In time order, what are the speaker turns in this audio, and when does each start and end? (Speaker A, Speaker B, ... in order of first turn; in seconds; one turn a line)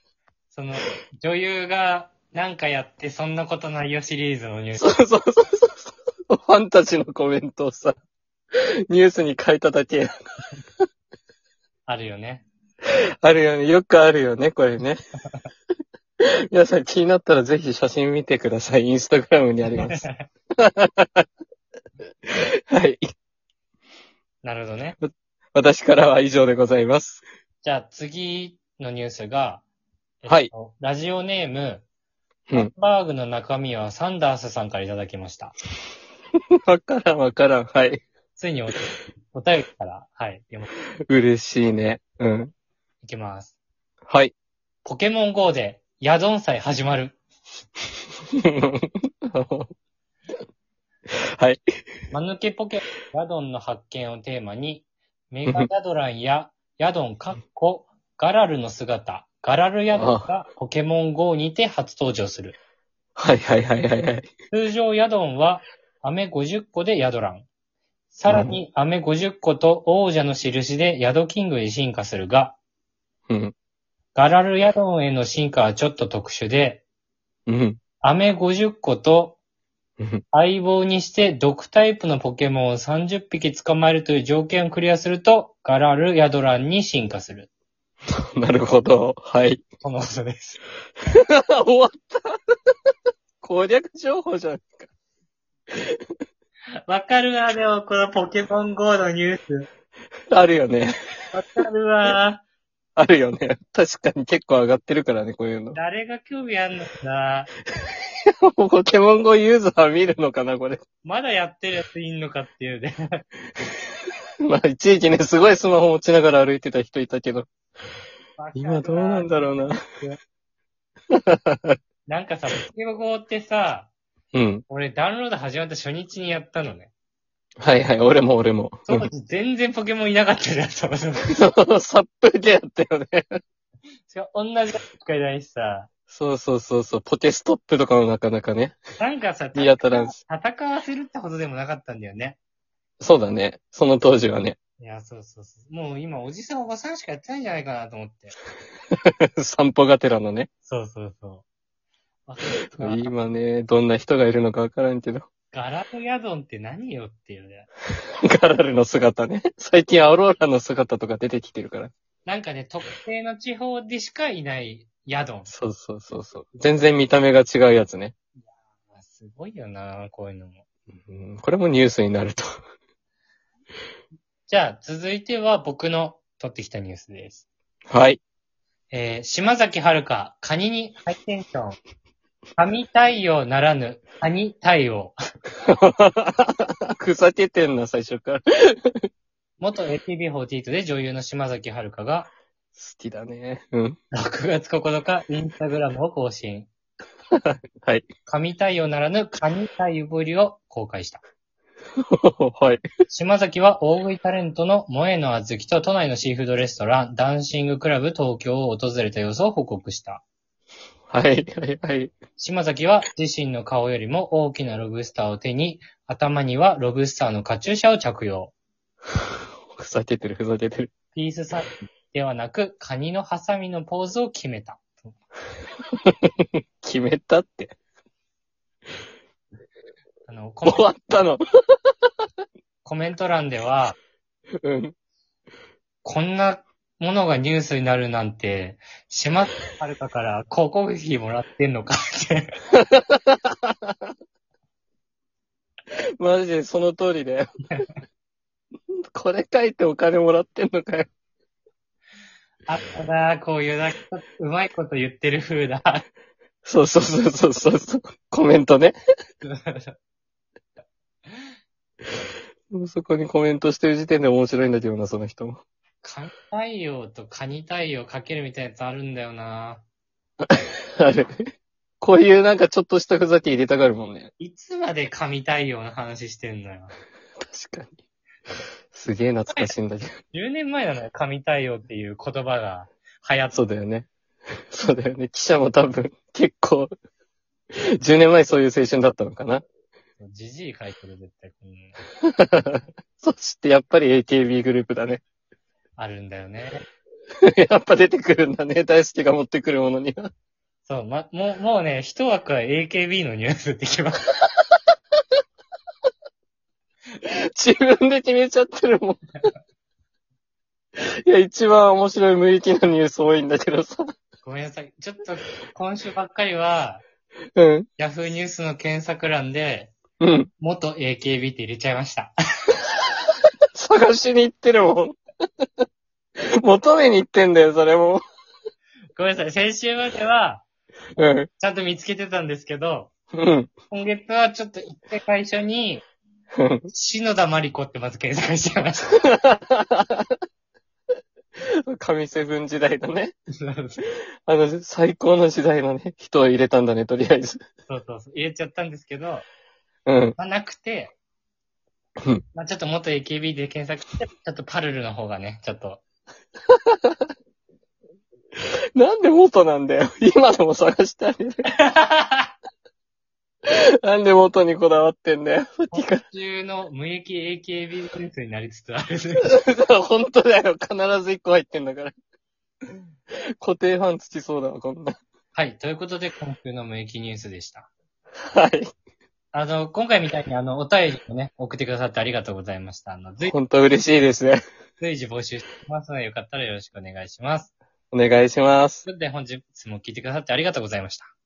Speaker A: 0.5-5.0
Speaker B: 4.8-7.9
Speaker B: 8.9-10.1
Speaker A: 11.9-12.4
Speaker B: 13.2-15.0
Speaker B: 16.5-20.0
Speaker A: 19.8-20.2
Speaker B: 20.6-21.2
Speaker B: 22.3-23.0
Speaker A: 24.4-25.0
Speaker B: 25.0-27.2
Speaker A: 27.6-29.6
Speaker A: 30.2-31.8
Speaker A: 32.5-35.5
Speaker B: 36.7-38.0
Speaker A: 38.4-40.7
Speaker B: 41.1-42.5
Speaker A: 43.0-43.5
Speaker A: 44.8-47.2
Speaker B: 48.3-49.7
Speaker A: 52.1-62.5
Speaker B: 59.9-60.3
Speaker B: 63.1-64.3
Speaker A: 64.5-67.5
Speaker A: 68.1-72.6
Speaker B: 68.3-68.5
Speaker B: 73.3-73.5
Speaker A: 74.1-76.8
Speaker B: 77.5-77.8
Speaker A: 78.0-79.4
Speaker A: 80.3-87.5
Speaker B: 88.1-89.6
Speaker A: 89.8-90.6
Speaker B: 91.1-92.3
Speaker B: 93.4-94.9
Speaker B: 95.7-96.0
Speaker A: 96.9-99.7
Speaker B: 100.3-100.9
Speaker A: 101.3-102.4
Speaker B: 103.0-105.8
Speaker A: 105.7-107.5
Speaker B: 108.4-110.8
Speaker A: 111.0-113.2
Speaker B: 114.4-117.5
Speaker A: 118.4-120.2
Speaker B: 118.5-119.8
Speaker B: 121.1-121.8
Speaker A: 122.1-123.9
Speaker B: 124.3-124.6
Speaker A: 124.7-126.9
Speaker B: 127.6-129.1
Speaker A: 128.9-131.3
Speaker B: 131.3-133.3
Speaker A: 134.1-135.9
Speaker B: 136.1-138.8
Speaker A: 139.0-142.4
Speaker B: 139.5-140.2
Speaker B: 143.0-144.6
Speaker A: 144.8-148.3
Speaker B: 148.9-150.5
Speaker A: 150.7-151.4
Speaker A: 152.3-153.2
Speaker B: 152.7-155.2
Speaker A: 155.5-157.7
Speaker B: 158.2-161.9
Speaker A: 162.2-165.5
Speaker B: 165.5-168.1
Speaker A: 168.4-170.6
Speaker B: 171.1-172.5
Speaker A: 174.5-177.4
Speaker B: 177.9-178.2
Speaker A: 178.9-181.8
Speaker A: 182.6-185.2
Speaker B: 185.7-189.0
Speaker A: 189.6-192.3
Speaker B: 192.8-194.0
Speaker A: 194.1-196.7
Speaker B: 197.3-198.0
Speaker A: 198.3-201.2
Speaker B: 202.0-202.8
Speaker A: 203.1-210.2
Speaker B: 211.1-212.1
Speaker A: 212.4-218.5
Speaker B: 219.7-220.9
Speaker A: 221.1-225.1
Speaker B: 226.1-227.7
Speaker A: 230.3-230.9
Speaker B: 230.7-231.4
Speaker A: 232.8-233.9
Speaker B: 234.6-234.9
Speaker A: 236.0-242.5
Speaker B: 242.7-243.9
Speaker B: 246.2-247.5
Speaker B: 249.1-251.1
Speaker A: 252.7-256.0
Speaker B: 256.6-258.9
Speaker A: 259.4-259.9
Speaker B: 262.7-265.6
Speaker A: 266.0-269.8
Speaker B: 270.4-271.4
Speaker B: 272.0-274.3
Speaker A: 274.4-276.9
Speaker B: 277.4-277.9
Speaker B: 278.9-280.1
Speaker A: 280.3-283.7
Speaker B: 283.5-284.1
Speaker B: 284.7-286.9
Speaker B: 287.9-289.6
Speaker A: 290.2-291.9
Speaker B: 292.2-295.2
Speaker A: 296.0-296.8
Speaker B: 297.4-300.3
Speaker A: 300.9-304.3
Speaker B: 307.2-309.2
Speaker B: 311.0-314.1
Speaker A: 314.4-317.0
Speaker B: 317.6-317.9
Speaker A: 318.0-319.9
Speaker B: 320.2-320.5
Speaker A: 320.6-322.8
Speaker B: 323.8-325.2
Speaker B: 326.6-328.2
Speaker A: 329.1-330.6
Speaker B: 331.2-331.5
Speaker A: 331.6-333.1
Speaker B: 333.3-333.7
Speaker A: 333.9-336.0
Speaker B: 336.5-336.9
Speaker A: 336.9-339.1
Speaker B: 339.2-340.3
Speaker B: 341.9-343.3
Speaker A: 343.6-344.0
Speaker B: 344.4-347.6
Speaker A: 347.9-349.4
Speaker B: 350.1-350.4
Speaker A: 350.4-351.1
Speaker A: 352.5-356.0
Speaker B: 356.7-357.1
Speaker B: 358.9-361.7
Speaker A: 361.6-362.5
Speaker B: 363.7-366.2
Speaker A: 365.9-369.5
Speaker B: 369.4-372.1
Speaker B: 373.6-375.2
Speaker A: 375.5-377.9
Speaker B: 378.5-378.9
Speaker A: 379.5-383.5
Speaker B: 383.4-384.6
Speaker A: 385.0-387.7
Speaker B: 388.1-389.0
Speaker A: 389.0-391.3